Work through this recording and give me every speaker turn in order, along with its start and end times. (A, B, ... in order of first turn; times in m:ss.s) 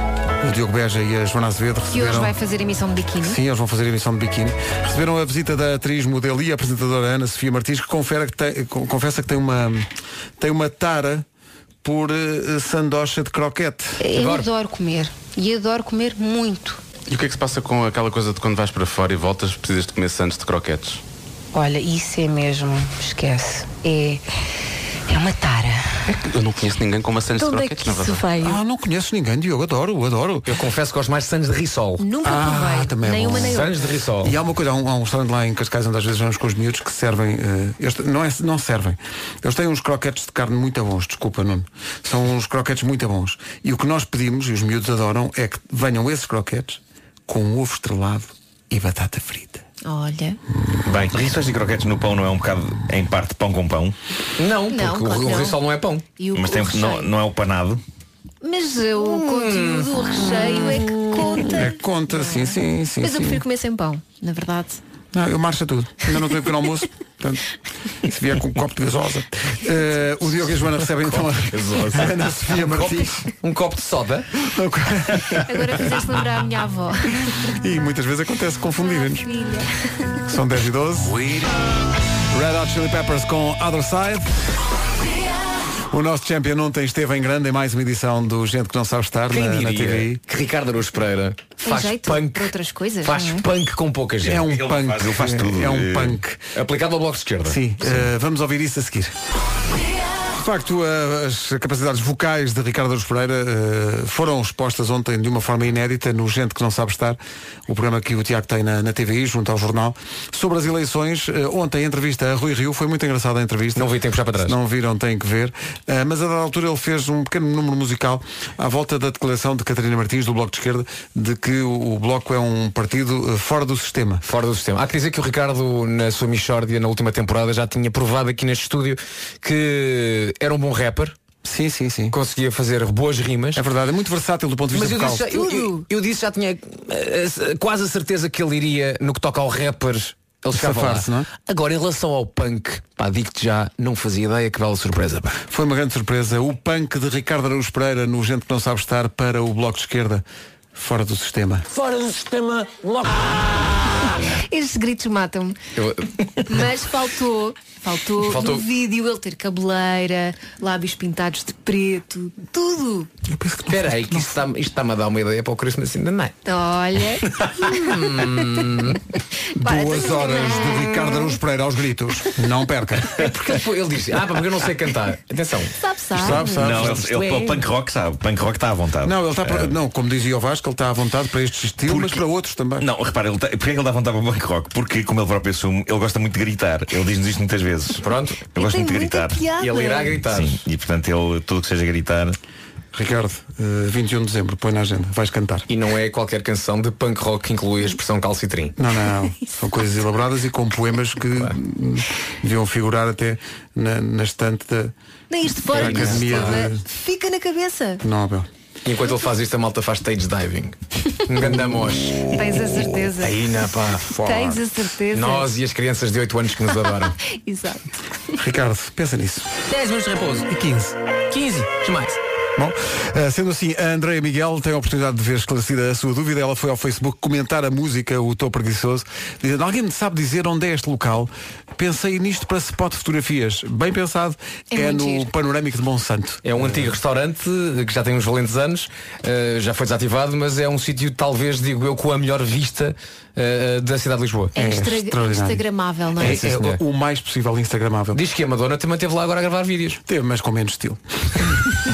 0:00.4-0:02.3 A
0:01.9-0:03.4 B
0:03.2-0:09.8 A
0:10.4-0:11.2 A
0:11.8-0:14.0 A
0:14.0-0:16.8 C
0:14.1-0:14.5 D
0:17.1-0:21.0 E
0:21.5-0:24.2 C
0:25.1-0:26.1 C
0:26.1-0:28.2 E
0:27.4-0:28.6 C
0:28.4-0:30.5 A
0:30.4-0:32.0 D
0:32.0-0:33.8 B
0:32.2-0:33.6 A
0:33.3-0:34.4 D
0:34.2-0:49.6 A
0:49.8-0:50.4 B
0:51.0-0:54.0 F
0:54.4-0:56.0 D
0:54.7-0:55.6 B
0:56.2-0:57.1 B
0:56.3-0:57.8 F
0:58.4-1:04.8 B
0:59.1-1:00.8 D
1:01.4-1:03.4 A
1:05.1-1:07.4 A
1:08.0-1:13.3 A
1:11.0-1:14.2 D
1:14.4-1:15.9 A
1:15.3-1:17.3 B
1:17.4-1:19.3 A
1:18.8-1:20.1 B
1:20.3-1:21.2 A
1:22.3-1:24.3 A
1:25.9-1:30.2 A
1:29.3-1:34.4 D
1:31.6-1:33.4 B
1:34.2-1:36.4 A
1:34.3-1:36.2 F
1:36.5-1:37.6 D
1:37.4-1:39.1 A
1:40.3-2:04.2 A
1:53.8-1:54.6 D
2:04.2-2:11.2 D
2:11.4-2:12.2 A
2:12.1-2:13.6 D
2:13.5-2:15.4 A
2:14.7-2:25.4 D
2:15.3-2:15.8 B
2:20.5-2:21.3 A
2:25.5-2:30.2 A
2:30.7-2:31.6 A
2:34.5-2:35.6 B
2:35.8-2:36.1 D
2:36.4-2:43.1 B
2:38.2-2:38.6 D
2:43.2-2:44.3 A
2:43.7-2:46.3 D
2:46.4-2:47.9 B
2:47.6-2:49.0 D
2:49.6-2:53.2 A
2:49.6-2:51.3 B
2:53.1-2:55.7 D
2:55.7-2:56.9 B
2:56.1-2:57.2 A
2:56.5-2:59.7 F
2:56.6-2:57.4 D
2:59.0-3:02.9 A
3:01.9-3:02.2 F
3:02.8-3:09.4 F
3:08.0-3:08.4 D
3:08.6-3:10.2 B
3:09.6-3:10.6 D
3:10.2-3:12.4 F
3:12.9-3:15.7 A
3:15.7-3:18.7 D
3:18.8-3:24.9 A
3:25.3-3:28.0 B
3:25.7-3:26.8 A
3:25.7-3:26.6 D
3:28.0-3:28.5 A
3:28.8-3:30.8 D
3:31.3-3:32.3 D
3:32.3-3:35.5 B
3:33.2-3:37.1 D
3:36.8-3:37.8 B
3:38.4-3:39.5 A
3:39.7-3:40.5 D
3:40.5-3:41.0 A
3:41.3-3:42.2 D
3:42.6-3:56.9 A
3:54.7-3:55.3 B
3:56.4-4:04.5 D
4:04.5-4:06.4 B
4:04.6-4:05.6 A
4:06.2-4:08.2 A
4:06.2-4:06.8 D
4:08.1-4:10.0 D
4:10.0-4:11.0 A